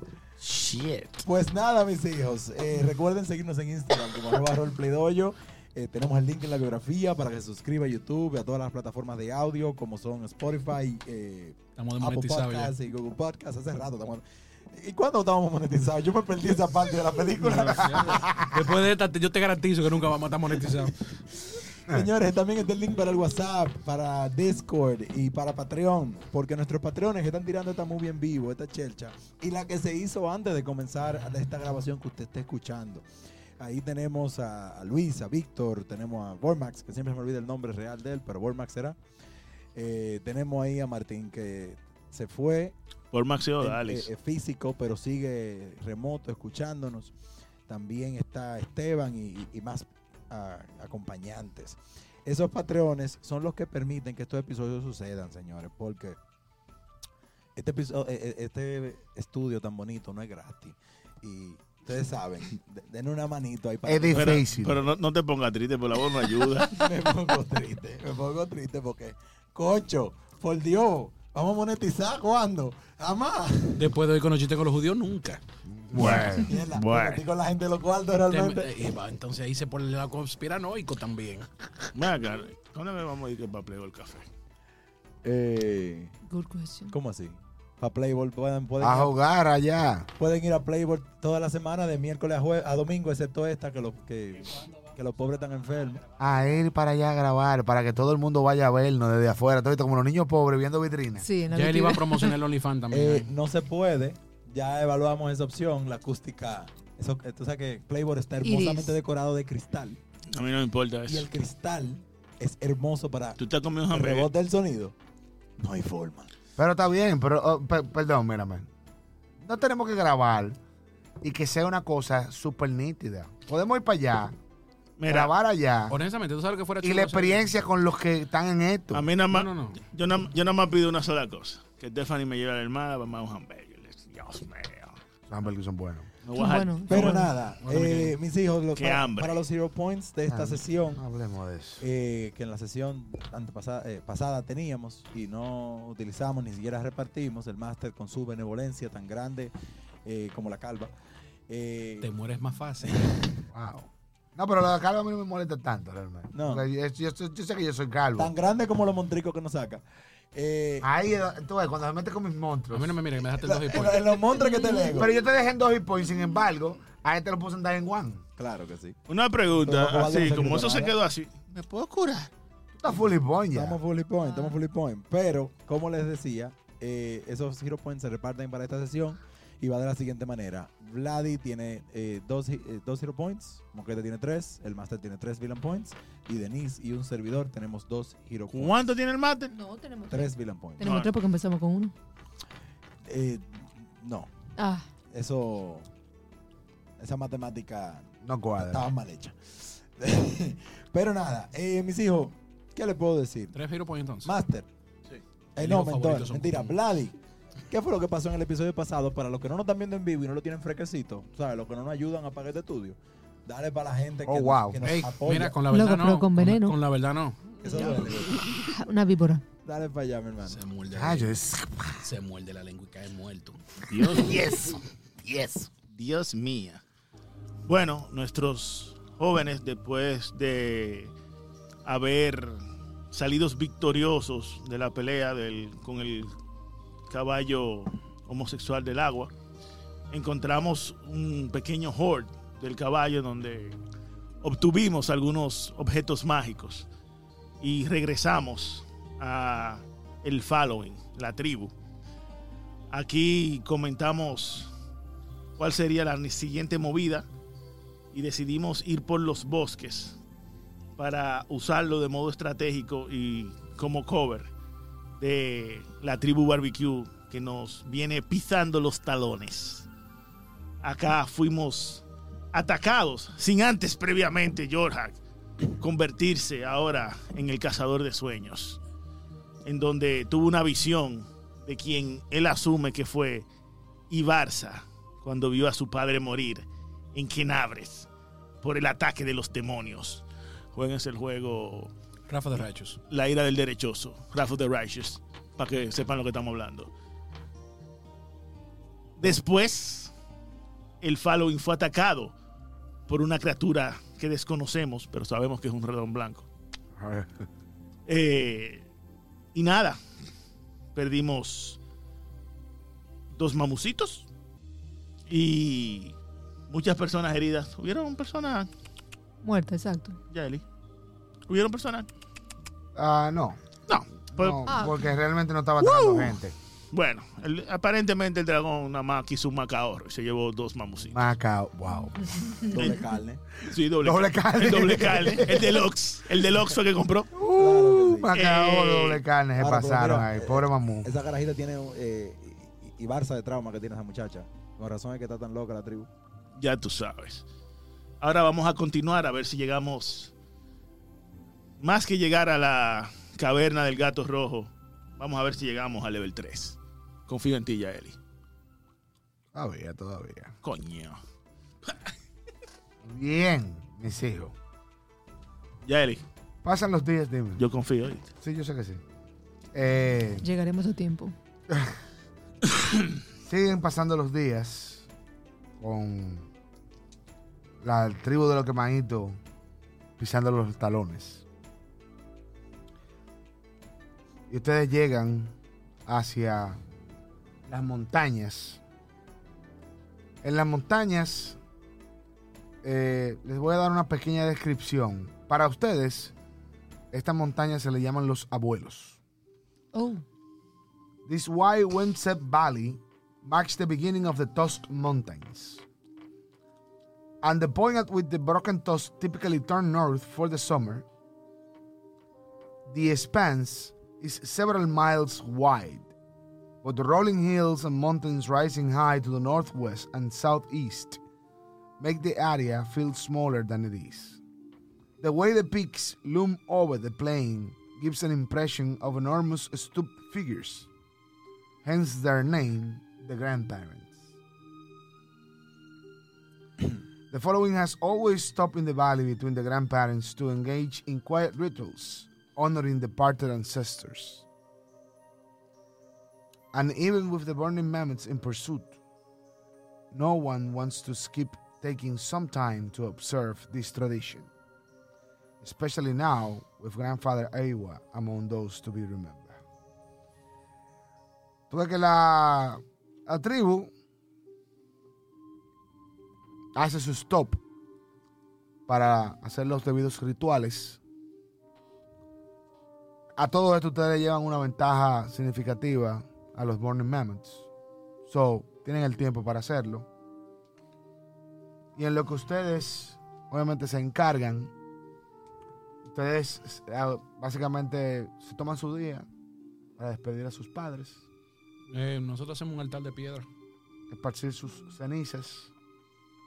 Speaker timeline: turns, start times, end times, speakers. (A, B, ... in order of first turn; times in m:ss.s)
0:00.4-0:01.2 A
0:01.2-0:18.3 B
0:11.8-0:12.7 C
0:17.6-0:21.0 C
0:17.8-0:18.5 D
0:21.4-0:33.1 B
0:33.6-0:39.0 B
0:39.7-0:42.8 B
0:43.1-0:44.1 A
0:43.6-0:47.1 B
0:47.7-0:56.2 B
0:57.6-1:04.4 B
1:03.8-1:04.8 D
1:04.1-1:06.8 A
1:06.6-1:14.0 B
1:13.8-1:15.4 C
1:15.7-1:16.5 D
1:15.9-1:17.2 A
1:16.0-1:18.8 B
1:18.3-1:21.6 C
1:21.9-1:24.3 A
1:25.2-1:26.1 B
1:26.2-1:26.9 E
1:26.9-1:29.1 B
1:28.8-1:30.1 D
1:30.2-1:36.0 B
1:36.2-1:41.2 D
1:41.2-1:42.3 E
1:41.5-1:43.3 C
1:42.9-1:50.0 B
1:48.4-1:49.0 E
1:50.3-1:51.3 A
1:51.1-1:54.9 B
1:53.4-1:54.3 A
1:55.6-1:56.3 B
1:56.6-1:58.7 D
1:59.4-2:00.6 D
2:01.2-2:04.3 D
2:05.0-2:05.3 A
2:05.1-2:06.0 D
2:05.9-2:07.4 C
2:06.8-2:09.1 D
2:08.9-2:15.0 A
2:09.3-2:09.8 C
2:15.3-2:16.1 D
2:16.2-2:17.3 A
2:16.3-2:17.3 E
2:16.9-2:21.0 B
2:17.6-2:18.2 C
2:18.8-2:19.4 A
2:20.3-2:21.8 D
2:21.8-2:29.5 B
2:30.0-2:30.9 B
2:31.5-2:32.1 B
2:32.0-2:33.2 C
2:32.8-2:33.3 B
2:33.5-2:38.3 D
2:36.3-2:36.6 B
2:38.2-2:39.8 B
2:40.3-2:40.9 B
2:40.8-2:43.0 D
2:42.7-2:44.2 C
2:43.4-2:45.1 B
2:44.3-2:45.1 E
2:44.9-2:48.2 D
2:48.4-2:49.0 B
2:49.1-2:52.3 A
2:49.5-2:50.9 B
2:52.8-2:53.8 D
2:53.5-3:08.9 B
2:54.2-2:54.6 E
3:08.5-3:09.5 A
3:09.5-3:11.9 E
3:10.1-3:10.9 B
3:10.8-3:11.1 A
3:13.0-3:14.3 B
3:14.6-3:14.9 E
3:15.1-3:15.9 B
3:17.0-3:23.6 B
3:18.2-3:18.9 D
3:23.5-3:24.3 C
3:24.2-3:24.7 B
3:25.6-3:27.2 B
3:25.6-3:26.8 C
3:27.7-3:35.6 B
3:34.2-3:34.8 D
3:34.8-3:38.1 C
3:35.7-3:36.8 E
3:37.6-3:38.5 B
3:38.5-3:39.4 E
3:39.6-3:40.6 B
3:40.5-3:41.4 C
3:40.9-3:42.0 D
3:42.0-3:43.6 C
3:43.9-3:44.7 A
3:44.2-3:45.7 D
3:45.8-3:46.8 A
3:47.6-3:51.1 A
3:51.8-3:56.3 A
3:57.1-3:59.3 A
4:00.1-4:03.8 A
4:04.4-4:06.9 A
4:07.6-4:11.7 A
4:12.9-4:14.7 A
4:15.6-4:17.3 A
4:18.1-4:20.2 A
4:21.0-4:24.5 A
4:25.2-4:29.9 A
4:30.8-4:35.2 A
4:35.8-4:38.8 A
4:39.6-4:43.5 A
4:44.1-4:48.1 A
4:48.6-4:51.9 A
4:52.3-4:53.0 C
4:52.5-4:56.9 A
4:59.2-5:00.1 A
5:01.0-5:02.3 A
5:03.1-5:06.5 A
5:06.9-5:07.5 D
5:08.0-5:08.9 A
5:09.5-5:10.0 A
5:10.9-5:11.8 A
5:13.3-5:14.3 A
5:15.3-5:16.2 A
5:16.7-5:18.7 A
5:19.4-5:20.2 E
5:20.3-5:20.6 A
5:21.5-5:22.1 A
5:22.9-5:23.6 D
5:23.9-5:24.6 A
5:24.3-5:26.6 D
5:24.6-5:25.0 E
5:25.8-5:26.4 A
5:26.9-5:31.2 A
5:31.1-5:32.6 D
5:32.7-5:33.4 B
5:33.6-5:37.3 A
5:34.0-5:35.8 D
5:37.3-5:41.1 D
5:37.4-5:38.3 B
5:38.3-5:39.2 A
5:39.6-5:46.1 B
5:46.6-5:47.4 A
5:48.2-5:50.3 A
5:51.8-5:58.2 A
5:59.5-6:00.5 D
6:00.6-6:01.2 A
6:03.0-6:04.5 D
6:05.8-6:06.2 A
6:06.6-6:07.6 D
6:07.6-6:08.3 A
6:08.4-6:09.0 D
6:09.7-6:10.4 D
6:10.4-6:11.3 E
6:11.7-6:12.0 D
6:13.4-6:15.1 D
6:15.8-6:16.5 D
6:17.8-6:19.4 D
6:20.2-6:21.4 D
6:24.5-6:25.5 D
6:26.0-6:26.8 D
6:27.7-6:28.8 D
6:30.4-6:31.6 D
6:32.8-6:36.3 D
6:37.1-6:39.2 D
6:39.9-6:40.2 E
6:41.2-6:45.8 D
6:47.4-6:51.1 D
6:52.8-6:56.1 D
6:56.8-7:01.2 D
7:02.0-7:04.4 D
7:05.2-7:10.9 D
7:11.8-7:14.3 D
7:17.3-7:24.4 D
7:26.7-7:29.0 D
7:30.1-7:34.5 D
7:35.6-7:39.6 D
7:41.7-7:43.9 D
7:46.7-7:47.6 D
7:48.9-7:51.0 D
7:53.4-7:57.7 D
7:58.3-8:00.1 D
8:02.0-8:04.7 D
8:06.0-8:09.3 D
8:10.0-8:11.2 D
8:11.9-8:13.4 C
8:14.1-8:15.7 D